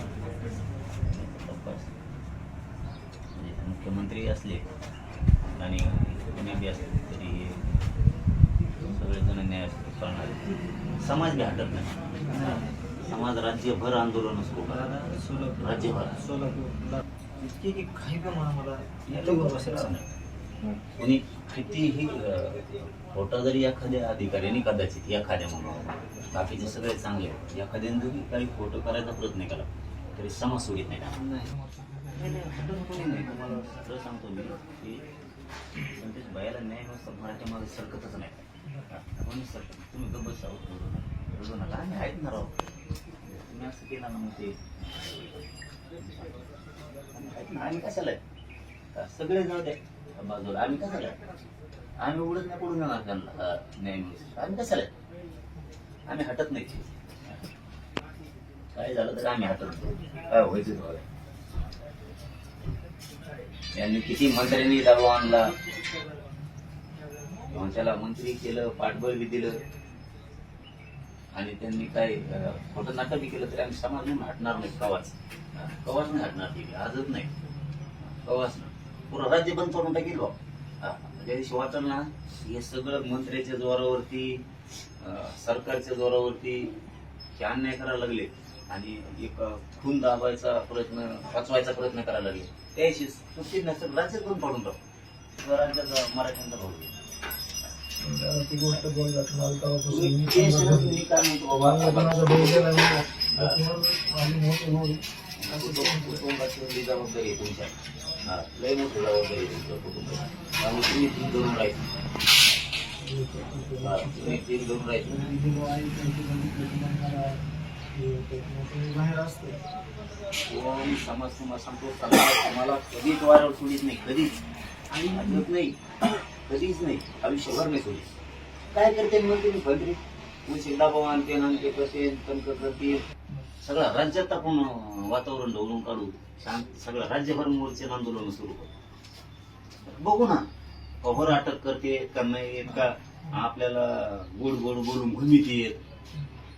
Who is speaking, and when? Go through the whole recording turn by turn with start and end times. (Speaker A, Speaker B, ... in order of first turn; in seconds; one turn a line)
Speaker A: 1.0-1.9
Speaker A: 3.3-4.7
Speaker A: 5.6-7.7
Speaker A: 8.8-15.0
Speaker B: 12.3-12.7
Speaker B: 14.7-19.9
Speaker A: 15.6-16.2
Speaker A: 19.1-20.1
Speaker A: 21.0-31.5
Speaker B: 31.6-32.2
Speaker A: 32.1-35.1
Speaker A: 35.8-42.5
Speaker A: 43.2-45.5
Speaker A: 46.0-46.4
Speaker A: 47.1-48.2
Speaker A: 48.9-51.2
Speaker A: 52.0-54.9
Speaker A: 56.1-57.5
Speaker A: 58.7-61.0
Speaker A: 63.8-65.5
Speaker A: 67.5-69.6
Speaker A: 71.3-77.3
Speaker A: 78.0-84.4
Speaker A: 85.0-86.8
Speaker A: 87.4-94.8
Speaker A: 95.4-97.0
Speaker B: 98.0-101.0
Speaker A: 99.9-103.6
Speaker B: 101.6-106.2
Speaker A: 105.4-107.7
Speaker A: 108.2-111.8
Speaker B: 113.0-114.4
Speaker A: 113.8-115.3
Speaker B: 115.0-117.4
Speaker B: 117.9-119.6
Speaker A: 120.5-124.4
Speaker B: 124.9-125.4
Speaker A: 125.0-125.8
Speaker A: 126.5-128.1
Speaker A: 128.7-133.1
Speaker A: 133.6-138.8
Speaker A: 139.9-140.5
Speaker A: 141.0-145.8